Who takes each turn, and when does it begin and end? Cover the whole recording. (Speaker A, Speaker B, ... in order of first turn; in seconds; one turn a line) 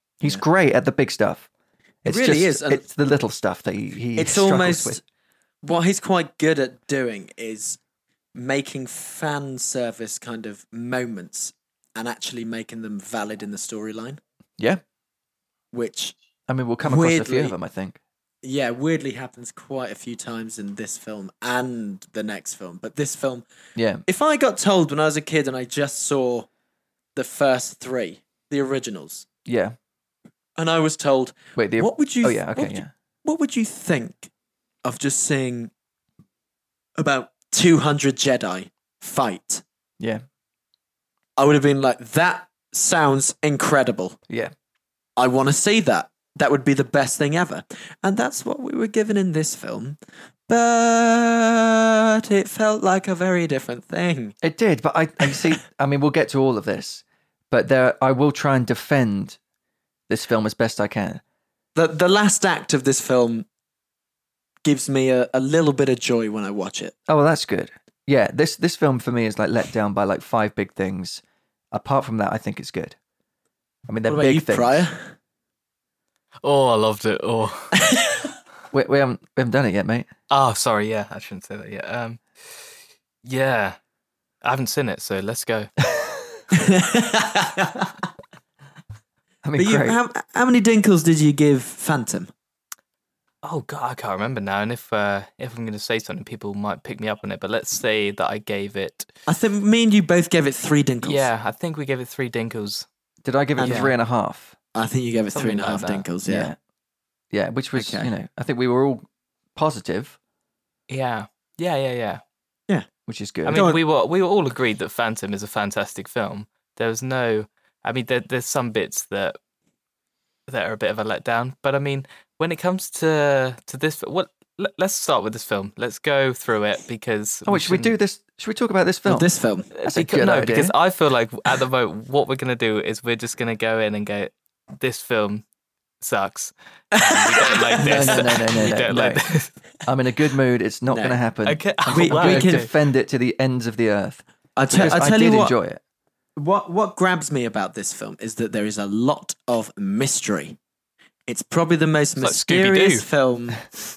Speaker A: 0.2-1.5
Speaker A: 2.0-5.0
Speaker B: 2.0-2.8
Speaker B: 4.2-5.0
Speaker B: 5.6-7.8
Speaker B: 8.3-14.2
Speaker B: 15.7-16.2
Speaker A: 16.5-18.0
Speaker B: 16.8-17.6
Speaker B: 18.4-23.5
Speaker A: 23.8-24.0
Speaker B: 24.1-26.5
Speaker B: 27.1-29.3
Speaker A: 29.4-29.8
Speaker B: 30.6-34.3
Speaker A: 31.6-32.9
Speaker B: 34.8-35.7
Speaker B: 37.0-39.6
Speaker B: 41.4-44.2
Speaker B: 45.2-54.4
Speaker A: 54.4-59.4
Speaker B: 55.2-55.5
Speaker A: 60.1-61.2
Speaker B: 61.8-63.5
Speaker B: 64.7-66.9
Speaker A: 67.1-73.0
Speaker A: 73.9-74.9
Speaker B: 74.1-75.1
Speaker C: 76.4-77.8
Speaker B: 77.8-78.3
Speaker A: 78.7-80.1
Speaker C: 80.3-82.6
Speaker C: 83.2-83.8
Speaker C: 84.4-85.7
Speaker B: 86.5-88.0
Speaker A: 89.4-90.0
Speaker B: 89.6-92.3
Speaker C: 93.4-99.1
Speaker B: 99.3-101.3
Speaker C: 101.0-102.9
Speaker A: 103.2-104.6
Speaker B: 103.6-103.9
Speaker C: 103.6-103.9
Speaker B: 104.8-106.5
Speaker C: 105.3-106.1
Speaker A: 106.3-106.6
Speaker A: 107.3-110.2
Speaker B: 107.8-108.1
Speaker C: 110.9-112.2
Speaker A: 113.1-113.7
Speaker C: 113.5-119.4
Speaker B: 113.5-113.8
Speaker C: 120.5-128.0
Speaker A: 127.5-129.3
Speaker B: 129.1-129.7
Speaker C: 129.8-135.4
Speaker A: 129.9-130.7
Speaker C: 136.0-139.5
Speaker B: 136.9-138.8
Speaker A: 137.8-139.2
Speaker A: 139.9-145.8
Speaker B: 140.9-141.2
Speaker C: 141.5-142.7
Speaker B: 141.9-142.7
Speaker B: 144.6-145.6
Speaker B: 146.4-150.6
Speaker B: 151.3-153.6
Speaker C: 152.2-153.1